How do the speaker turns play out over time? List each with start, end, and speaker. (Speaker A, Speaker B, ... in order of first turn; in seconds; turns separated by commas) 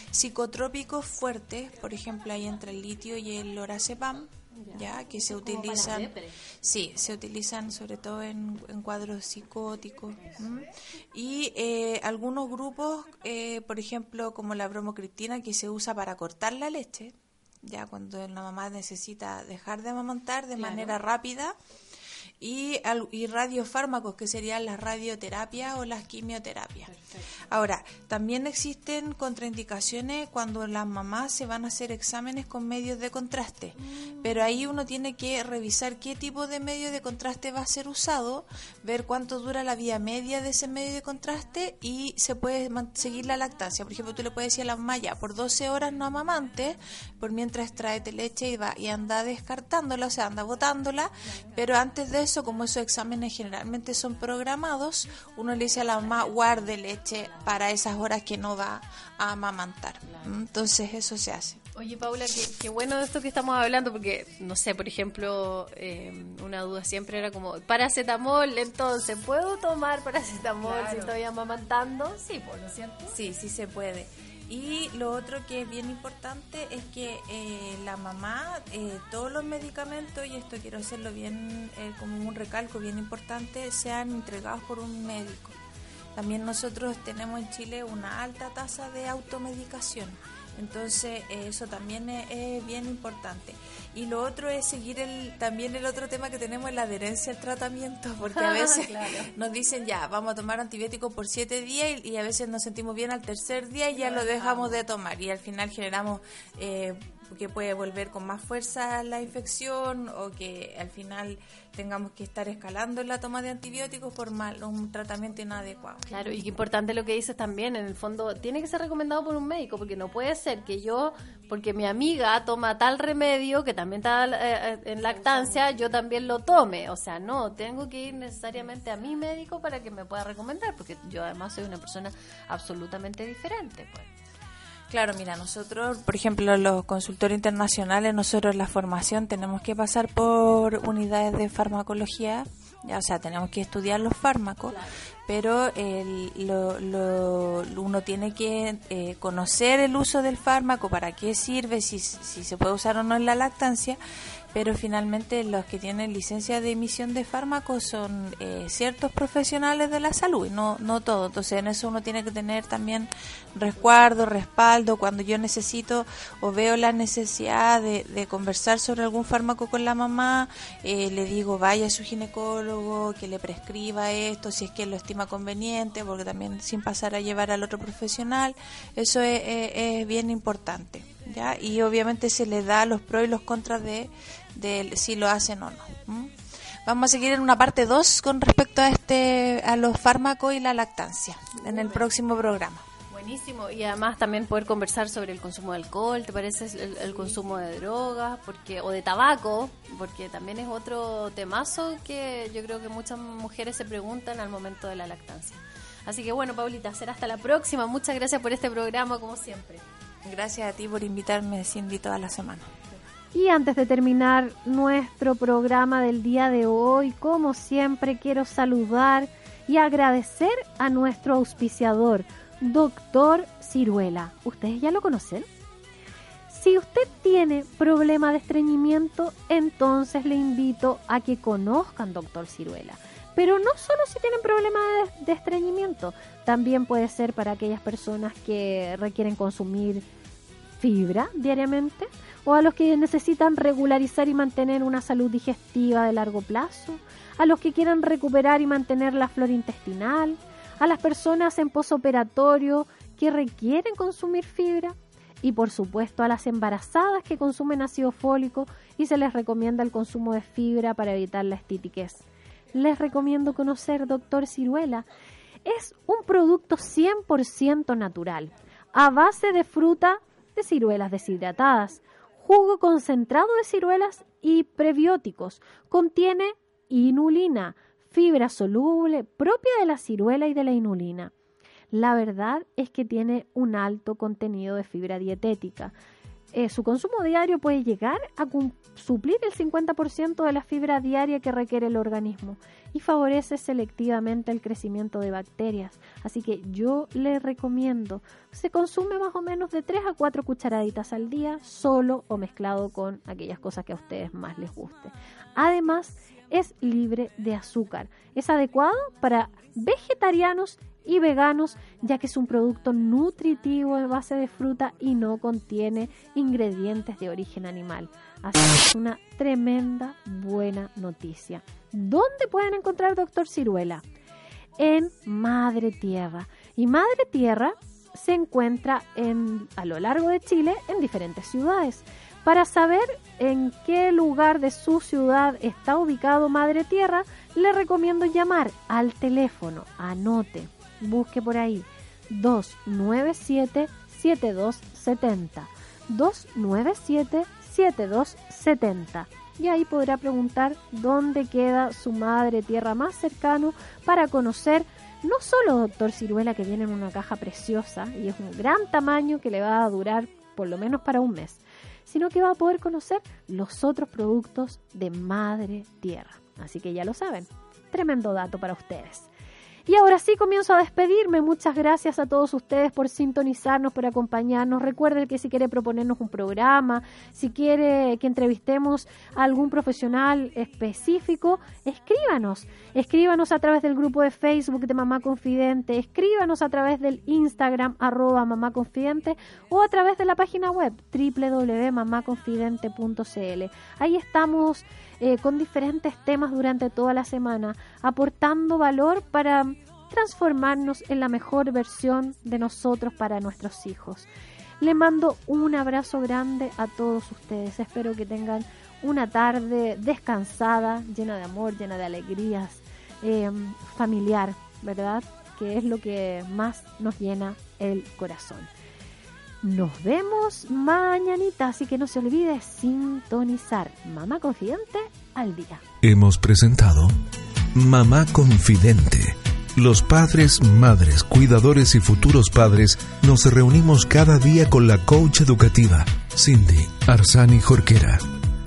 Speaker A: 0.1-21.6, Speaker B: 4.5-6.4, Speaker B: 20.6-21.0, Speaker A: 22.4-26.9, Speaker B: 26.9-27.4, Speaker A: 27.5-61.6, Speaker B: 33.8-34.7, Speaker B: 51.3-51.6, Speaker B: 56.0-56.7, Speaker B: 60.1-60.3, Speaker B: 61.7-73.2, Speaker C: 69.8-70.1, Speaker A: 70.8-71.1, Speaker A: 73.1-85.6, Speaker A: 86.2-116.1, Speaker C: 98.8-99.3, Speaker B: 104.0-104.8, Speaker B: 116.1-131.0, Speaker C: 123.0-124.8, Speaker C: 126.9-128.1, Speaker C: 128.7-133.9, Speaker A: 134.9-154.0, Speaker A: 154.5-186.3, Speaker A: 186.9-192.8, Speaker B: 191.6-192.1, Speaker B: 193.1-209.8, Speaker C: 195.0-196.9, Speaker C: 197.6-204.9, Speaker C: 206.9-208.3, Speaker C: 209.3-209.6, Speaker A: 210.2-212.7, Speaker C: 213.3-225.5, Speaker C: 226.5-240.1, Speaker C: 240.8-265.1, Speaker C: 265.6-281.3, Speaker C: 281.9-285.9, Speaker C: 286.5-324.0, Speaker C: 324.8-369.3, Speaker C: 369.9-404.3, Speaker C: 404.8-418.7, Speaker C: 419.6-425.8, Speaker D: 426.0-427.1, Speaker D: 427.8-438.2